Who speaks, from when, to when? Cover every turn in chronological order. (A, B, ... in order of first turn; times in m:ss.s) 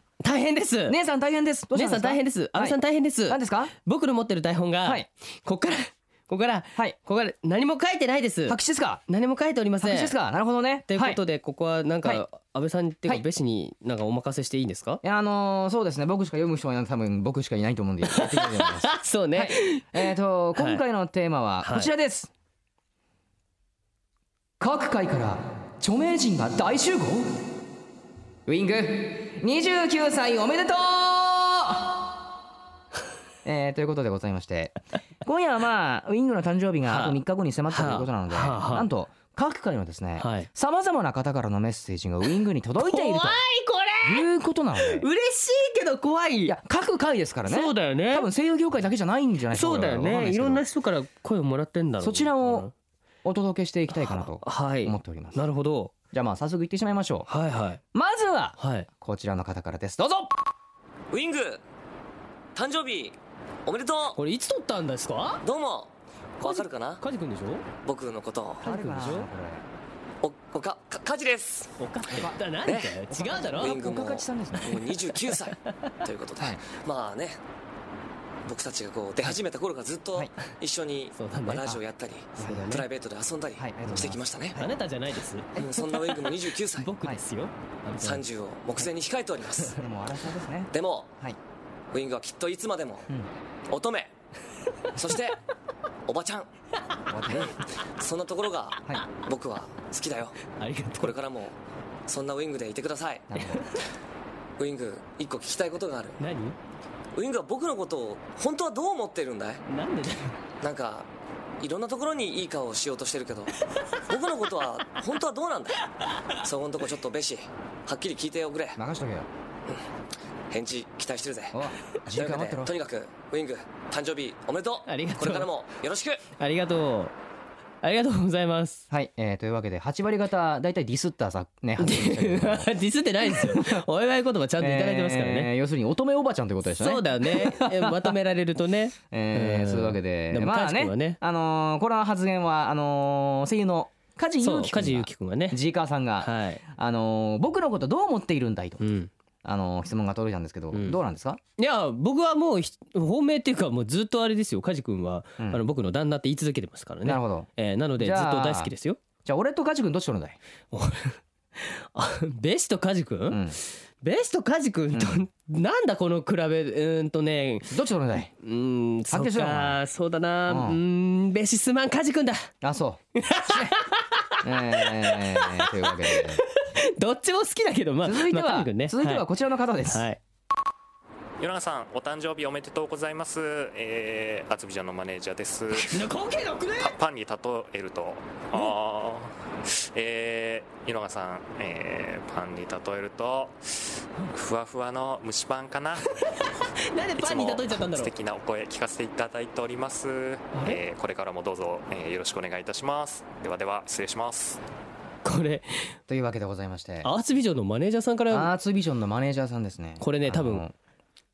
0:00.2-0:01.0 A
0:00.9-0:03.7 B
0:01.7-0:10.1 A
0:08.5-0:09.0 B
0:09.8-0:11.2 B
0:10.9-0:15.0 A
0:15.0-0:22.3 B
0:18.1-0:20.8 A
0:21.6-0:21.9 A
0:24.6-0:27.3 B
0:28.5-0:32.0 B
0:33.4-0:43.4 B
0:36.9-0:38.9 A
0:40.2-0:40.5 A
0:42.8-0:44.3 A
0:44.0-0:45.1 B
0:44.8-0:46.6 A
0:46.5-0:50.6 B
0:47.5-0:48.3 A
0:49.5-0:52.7 A
0:52.0-0:52.7 B
0:53.2-0:55.4 B
0:53.9-0:55.9 A
0:56.1-0:57.3 B
0:57.3-0:57.8 A
0:57.9-1:00.3 B
0:58.6-0:58.9 A
1:01.1-1:01.6 C
1:02.6-1:04.2 C
1:04.2-1:05.4 A
1:05.4-1:07.0 C
1:06.4-1:07.6 A
1:07.8-1:08.6 C
1:08.6-1:09.7 B
1:08.6-1:09.3 A
1:10.2-1:11.7 C
1:11.8-1:13.8 A
1:12.1-1:12.4 B
1:12.6-1:13.0 C
1:13.1-1:14.8 B
1:13.6-1:17.4 C
1:15.7-1:15.9 A
1:18.4-1:24.6 C
1:21.2-1:21.7 A
1:22.4-1:22.7 B
1:22.4-1:22.8 A
1:23.6-1:24.6 B
1:24.6-1:26.2 A
1:25.6-1:26.9 C
1:26.8-1:28.2 A
1:28.0-1:29.8 C
1:29.6-1:31.4 B
1:30.7-1:31.1 C
1:31.9-1:33.1 C
1:33.7-1:34.1 C
1:35.0-1:35.4 C
1:36.1-1:36.5 C
1:37.1-1:37.5 B
1:37.3-1:40.4 C
1:40.6-1:41.2 A
1:41.0-1:41.6 C
1:42.1-1:43.3 C
1:43.3-1:43.7 B
1:44.6-1:46.2 C
1:46.2-1:46.6 A
1:47.2-1:49.6 C
1:49.7-1:50.4 A
1:50.6-1:51.1 C
1:51.6-1:53.5 C
1:54.0-1:58.8 C
1:56.0-1:56.3 A
1:58.8-1:59.3 B
2:00.5-2:01.6 C
2:01.5-2:02.7 B
2:02.1-2:06.2 C
2:04.9-2:05.5 A
2:06.4-2:07.2 A
2:07.8-2:08.8 A
2:08.9-2:12.7 B
2:11.8-2:15.5 A
2:13.2-2:13.8 B
2:14.6-2:18.2 B
2:16.7-2:21.2 A
2:19.1-2:28.8 B
2:24.4-2:25.6 A
2:26.2-2:26.6 A
2:28.8-2:29.1 A
2:29.4-2:31.4 B
2:30.7-2:31.0 A
2:31.6-2:39.0 A
2:37.0-2:37.5 B
2:38.0-2:38.7 B
2:39.2-2:40.4 B
2:40.7-2:43.4 A
2:43.3-2:43.6 B
2:44.0-2:47.7 A
2:44.9-2:45.2 B
2:47.7-2:48.3 B
2:48.4-2:52.5 A
2:49.1-2:49.8 B
2:50.5-2:50.8 B
2:52.6-2:53.8 B
2:53.2-2:59.3 A
2:54.4-2:56.4 B
2:58.0-3:00.1 B
2:59.9-3:00.2 A
3:01.4-3:06.0 D
3:05.8-3:06.9 A
3:06.8-3:09.3 D
3:09.9-3:13.6 D
3:14.3-3:16.1 D
3:16.9-3:18.1 A
3:17.2-3:24.6 D
3:20.5-3:20.8 A
3:25.2-3:25.9 A
3:26.1-3:27.1 B
3:27.0-3:28.5 A
3:28.3-3:30.7 B
3:30.0-3:30.7 A